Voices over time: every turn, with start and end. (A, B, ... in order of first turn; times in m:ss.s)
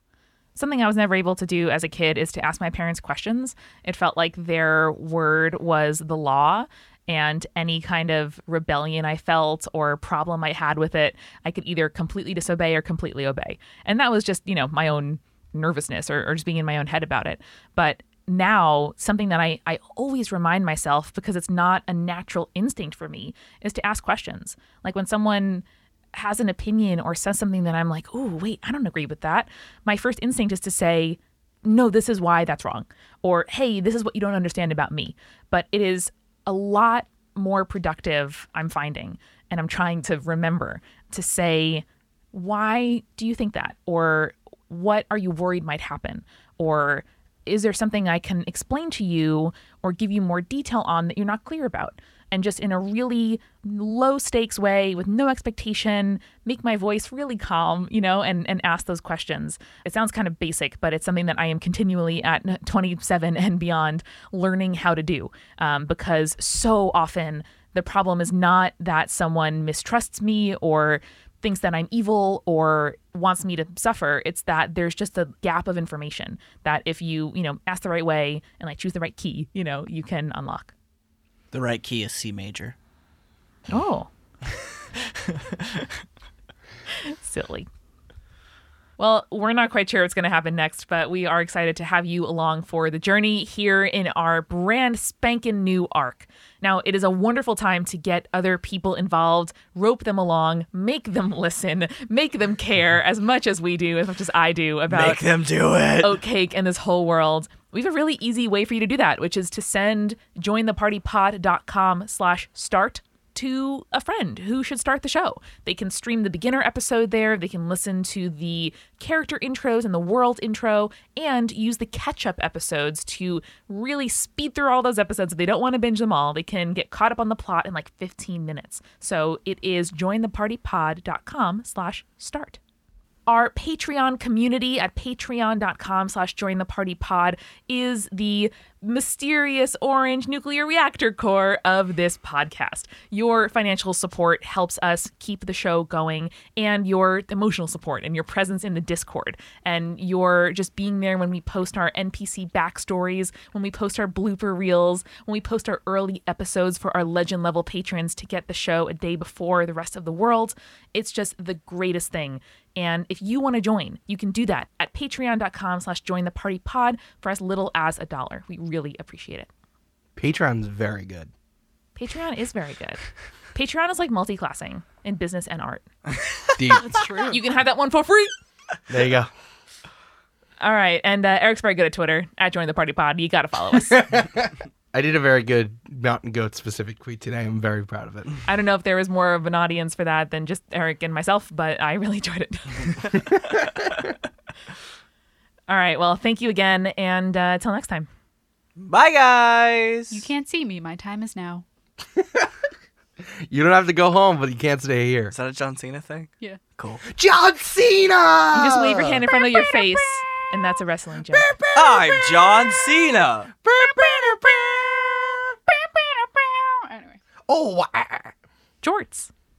0:00.5-1:20.7 A
1:21.5-1:22.7 B
1:23.7-1:24.1 A
1:25.2-1:25.9 B
1:26.9-1:27.7 A
1:29.0-1:45.2 A
1:44.9-1:46.2 B
1:46.0-2:12.6 A
2:13.3-2:49.5 A
2:50.2-2:51.3 C
2:52.0-2:53.0 A
2:53.5-2:55.8 A
2:56.6-2:57.0 C
2:56.7-2:57.4 D
2:57.1-2:58.3 A
2:58.9-2:59.3 C
3:00.6-3:04.1 A
3:03.9-3:08.3 C
3:08.4-3:13.3 A
3:15.7-3:18.1 A
3:18.8-3:20.2 B
3:20.1-3:21.6 D
3:22.2-3:22.5 C
3:23.4-3:25.3 C
3:25.3-3:27.0 B
3:27.0-3:29.7 C
3:28.5-3:31.5 A
3:31.3-3:32.8 C
3:31.7-3:33.5 B
3:33.6-3:35.5 C
3:35.7-3:37.2 D
3:37.5-3:38.3 C
3:38.8-3:39.3 A